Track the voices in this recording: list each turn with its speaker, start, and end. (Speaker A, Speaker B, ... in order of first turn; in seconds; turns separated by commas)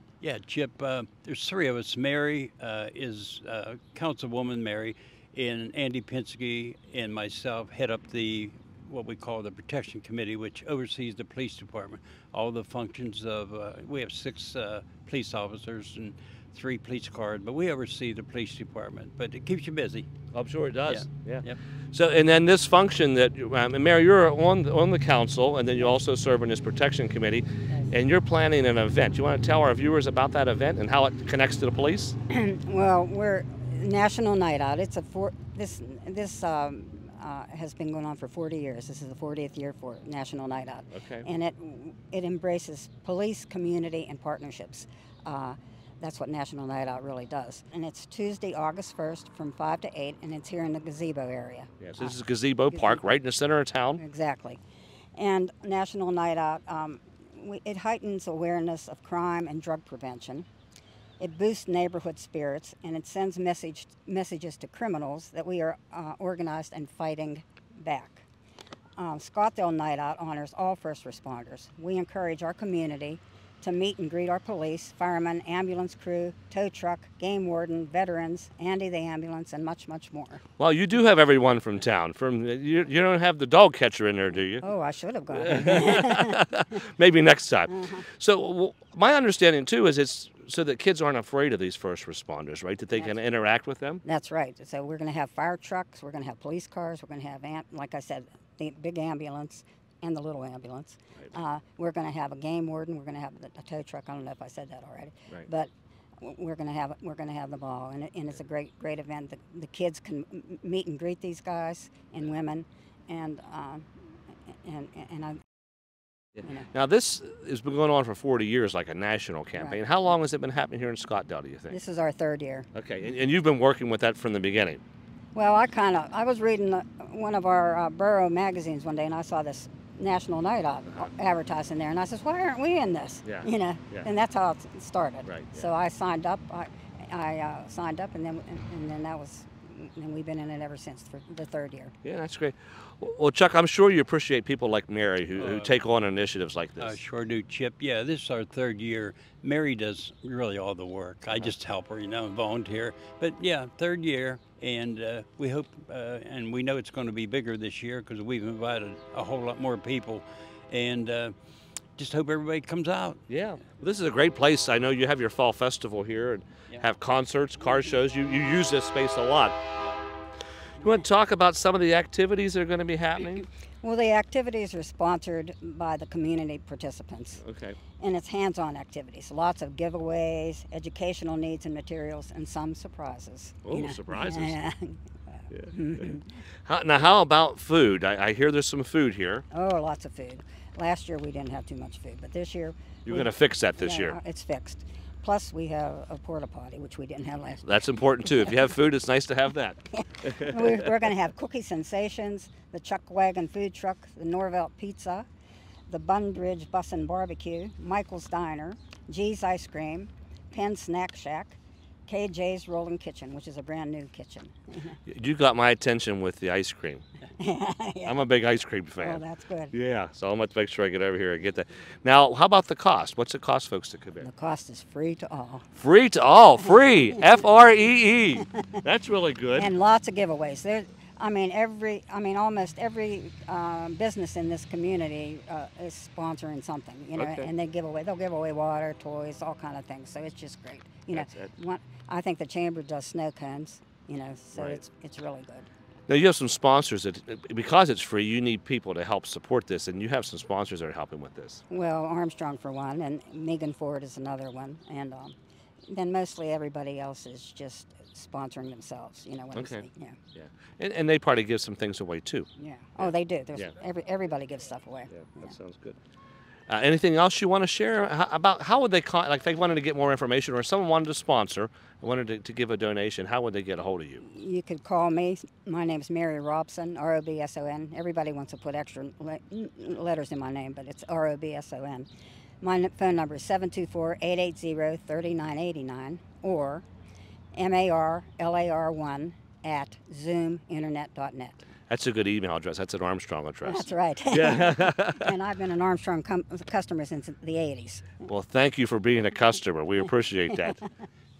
Speaker A: 0.2-20.1, Speaker B: 20.3-32.1, Speaker A: 20.9-21.6, Speaker C: 32.3-52.1, Speaker B: 40.9-41.3, Speaker B: 51.8-54.0, Speaker C: 52.7-53.0, Speaker C: 54.0-54.6, Speaker C: 55.1-60.5, Speaker C: 61.2-68.3, Speaker C: 69.0-80.4, Speaker B: 80.6-84.6, Speaker C: 84.6-86.4, Speaker B: 85.3-94.0, Speaker C: 87.7-88.0, Speaker C: 94.0-113.9, Speaker C: 114.5-115.4, Speaker B: 116.4-121.8, Speaker C: 116.4-116.7, Speaker C: 121.7-122.7, Speaker B: 122.7-124.8, Speaker C: 125.3-141.9, Speaker B: 133.2-134.1, Speaker B: 135.2-135.7, Speaker B: 142.0-147.0, Speaker A: 145.4-145.7, Speaker A: 146.8-161.3, Speaker A: 162.0-163.2, Speaker B: 163.3-169.6, Speaker B: 170.8-173.5, Speaker C: 173.8-177.4, Speaker B: 177.4-177.8, Speaker C: 178.0-186.4, Speaker B: 183.6-184.6, Speaker B: 185.5-186.1, Speaker B: 186.7-189.4, Speaker C: 189.5-197.7, Speaker B: 193.1-194.2, Speaker B: 197.6-200.8, Speaker C: 198.2-198.5, Speaker C: 199.9-205.3, Speaker C: 205.9-215.0, Speaker B: 215.1-217.0, Speaker C: 217.4-218.2, Speaker B: 218.0-219.2, Speaker C: 219.0-219.7, Speaker B: 219.7-224.3, Speaker C: 224.2-225.7, Speaker B: 225.8-229.7, Speaker C: 229.6-245.7, Speaker B: 237.2-237.5, Speaker B: 241.1-241.5, Speaker B: 246.1-251.6, Speaker C: 251.7-255.3, Speaker C: 255.9-260.2, Speaker B: 259.5-262.5, Speaker C: 262.6-265.5, Speaker B: 263.0-263.7, Speaker B: 265.1-266.0, Speaker B: 266.7-274.2, Speaker C: 274.2-282.1, Speaker C: 282.6-286.8, Speaker C: 287.5-291.6, Speaker B: 291.9-295.3, Speaker C: 293.6-298.2, Speaker B: 298.2-300.8